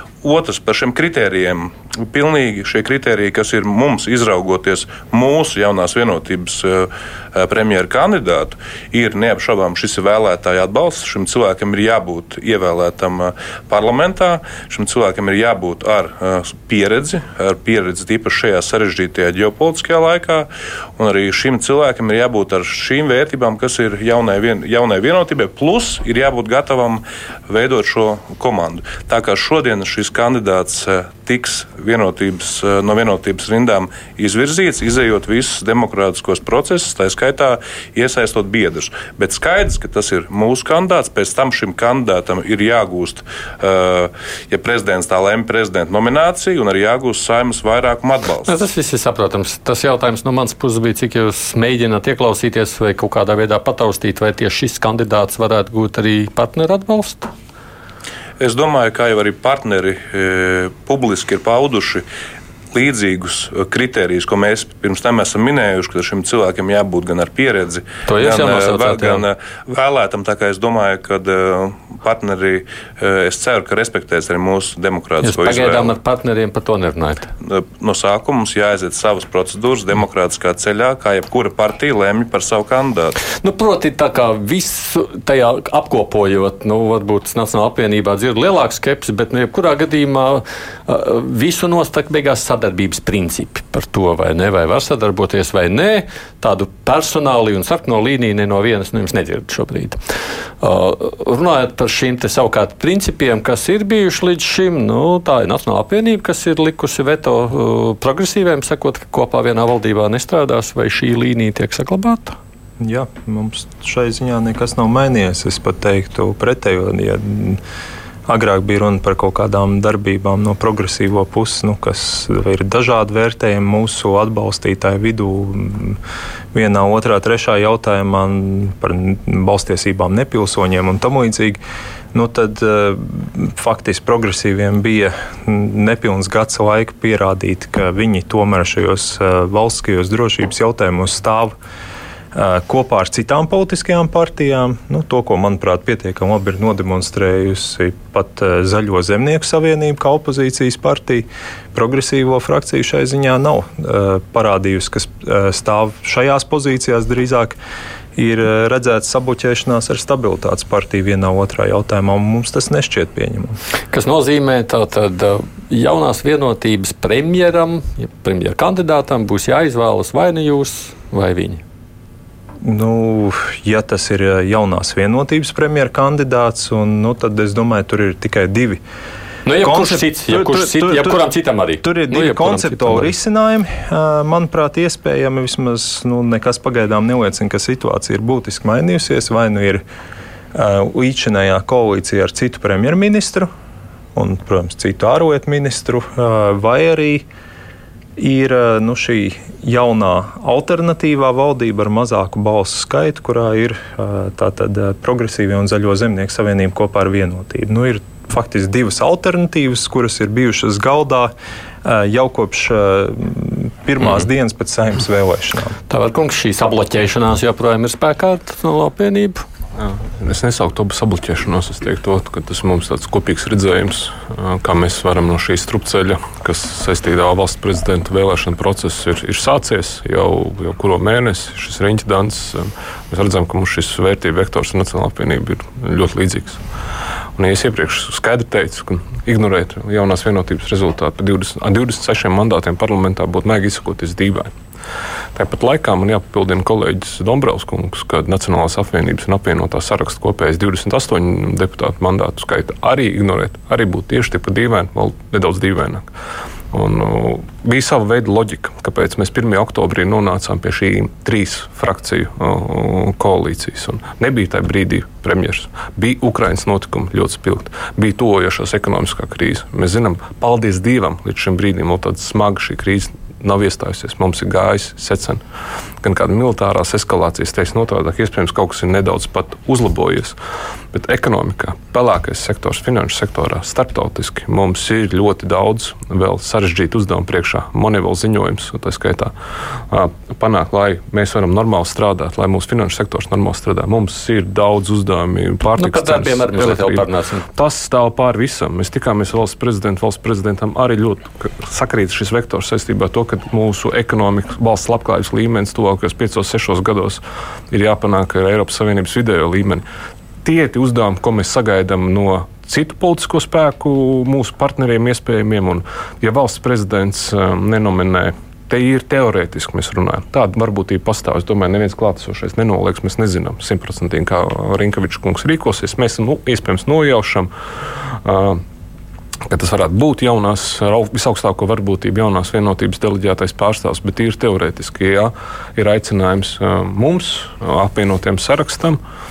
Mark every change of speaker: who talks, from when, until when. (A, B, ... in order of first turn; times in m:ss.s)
0:00.2-0:48.6 A
0:48.5-0:57.3 B
0:58.4-1:02.0 A
1:02.7-1:15.9 A
1:08.1-1:09.2 B
1:15.2-1:17.3 B
1:17.4-1:23.2 A
1:23.4-1:40.0 B
1:40.6-1:52.4 B
1:52.8-1:57.6 C
1:58.3-2:06.0 C
2:06.5-2:11.6 C
2:12.1-2:21.6 C
2:22.3-2:37.6 C
2:38.2-2:43.6 C
2:43.9-2:51.6 B
2:52.6-2:58.8 C
2:59.4-3:03.1 B
2:59.6-3:01.2 C
3:01.8-3:09.8 C
3:10.5-3:13.5 C
3:14.1-3:17.3 C
3:18.2-3:35.8 C
3:35.9-3:39.4 B
3:39.8-3:56.6 D
3:57.4-4:04.5 D
4:05.4-4:16.1 D
4:16.7-4:35.4 D
4:36.0-4:40.4 D
4:40.9-4:49.3 D
4:49.9-5:09.8 D
4:55.8-4:57.5 B
5:10.4-5:27.5 D
5:28.1-5:28.6 D
5:29.5-5:39.0 D